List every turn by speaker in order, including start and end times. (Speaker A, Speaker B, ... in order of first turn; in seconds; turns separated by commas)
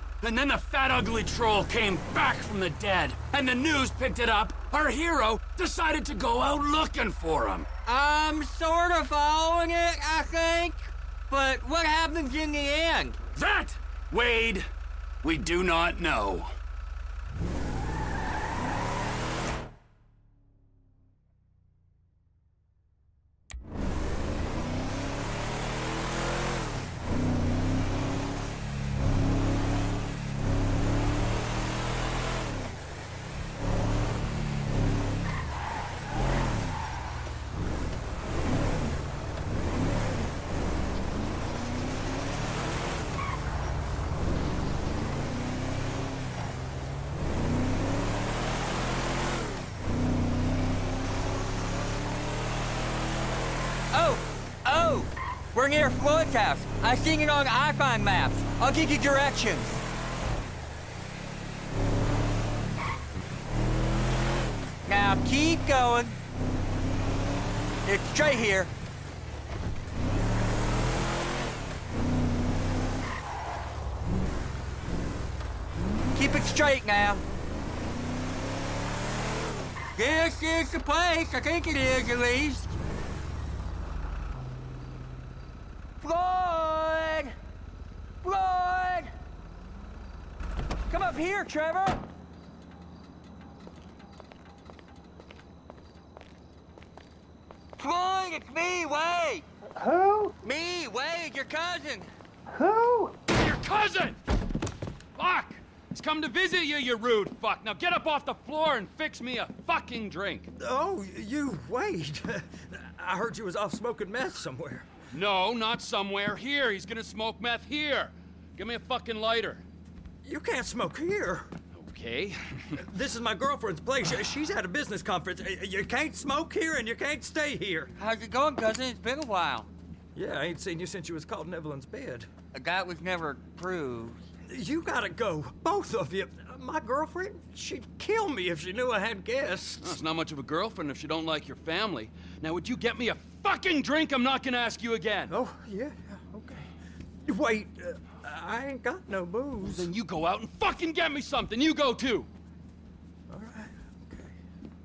Speaker A: 0.2-7.7, Speaker B: 7.9-13.2, Speaker A: 13.3-14.7, Speaker A: 15.2-16.5, Speaker B: 53.9-59.8, Speaker B: 64.8-66.2, Speaker B: 67.8-68.7, Speaker B: 76.2-77.2, Speaker B: 80.0-82.8, Speaker B: 86.0-87.4, Speaker B: 88.2-89.1, Speaker B: 90.9-92.0, Speaker B: 97.8-103.1, Speaker A: 103.3-104.2, Speaker A: 105.2-110.5, Speaker C: 110.5-114.9, Speaker A: 115.1-119.6, Speaker C: 120.2-121.5, Speaker A: 121.7-122.8, Speaker C: 122.8-127.9, Speaker B: 128.0-129.7, Speaker C: 130.2-132.3, Speaker B: 132.5-134.2, Speaker C: 134.5-140.0, Speaker A: 139.8-145.4, Speaker C: 145.3-146.7, Speaker C: 147.2-149.9, Speaker A: 149.6-152.3, Speaker C: 153.3-154.3